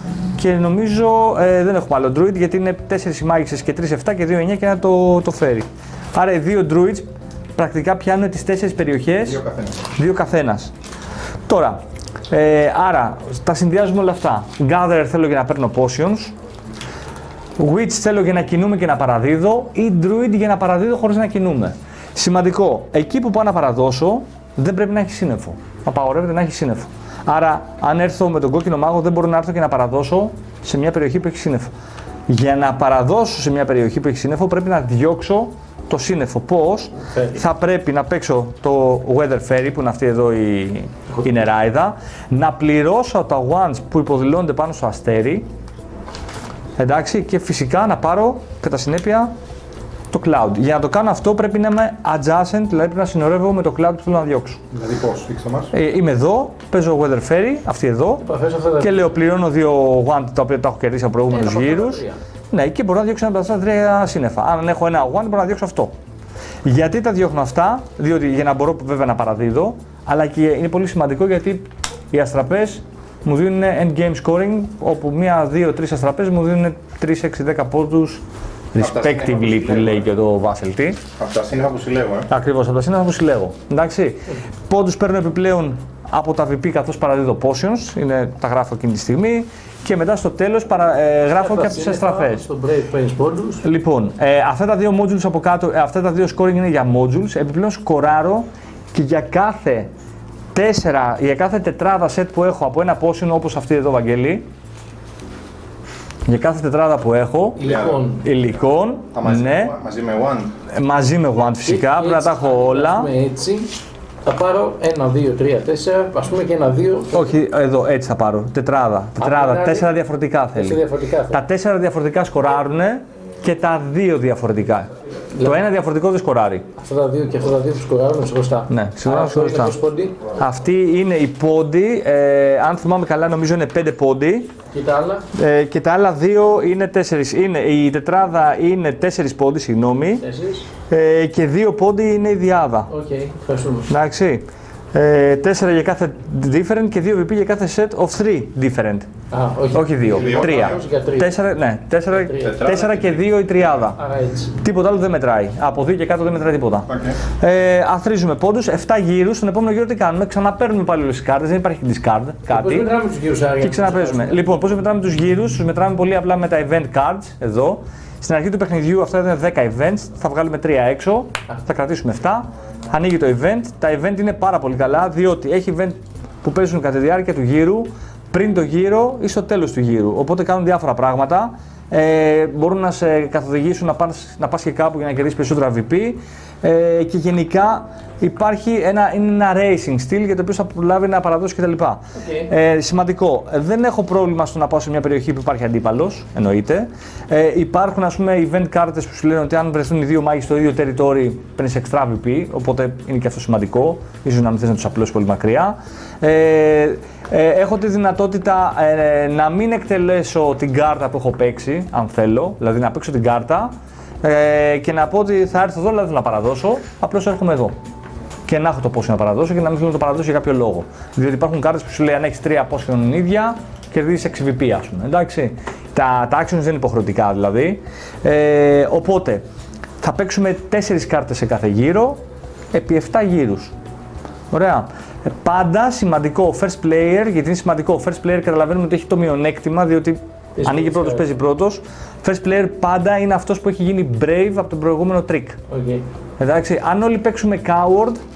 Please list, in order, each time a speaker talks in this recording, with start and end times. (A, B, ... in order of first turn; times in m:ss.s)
0:00.4-0:07.0 A
0:07.6-0:09.4 A
0:09.2-0:09.7 B
0:10.0-0:10.7 A
0:11.5-0:11.8 A
0:12.3-0:16.3 A
0:17.6-0:31.7 A
0:32.3-0:45.4 A
0:37.1-0:37.4 C
0:46.8-0:49.3 A
0:50.1-0:54.6 A
0:54.7-0:55.7 B
0:55.7-0:58.3 A
0:58.2-0:58.9 C
0:58.8-1:05.9 A
1:01.3-1:02.2 C
1:06.6-1:18.2 A
1:18.7-1:21.0 A
1:18.8-1:20.1 B
1:21.2-1:22.3 B
1:22.3-1:32.5 A
1:31.3-1:33.6 C
1:33.6-1:39.9 A
1:40.5-1:44.4 A
1:46.2-1:47.6 A
1:47.6-1:48.2 C
1:47.6-1:48.0 B
1:48.2-1:49.7 A
1:49.1-1:50.5 B
1:50.7-1:53.1 A
1:51.5-1:57.3 C
1:57.1-2:06.6 A
1:59.2-1:59.9 C
2:00.5-2:01.4 C
2:06.8-2:10.2 C
2:08.7-2:09.8 A
2:10.3-2:14.5 A
2:14.7-2:15.2 C
2:15.3-2:20.2 A
2:20.2-2:20.6 C
2:20.9-2:22.9 A
2:22.9-2:23.9 C
2:23.9-2:29.1 A
2:29.3-2:31.4 C
2:29.7-2:34.0 A
2:30.1-2:30.8 B
2:32.1-2:32.7 C
2:32.4-2:33.2 B
2:34.0-2:34.5 C
2:34.6-2:43.0 A
2:36.9-2:37.2 B
2:42.5-2:44.4 C
2:43.6-3:37.7 A
3:12.2-3:12.5 C
3:38.5-3:49.4 A
3:50.0-3:52.2 A
3:52.7-3:53.7 A
3:54.5-4:05.6 A
4:00.6-4:01.3 C
4:05.7-4:06.0 C
4:06.4-4:08.2 A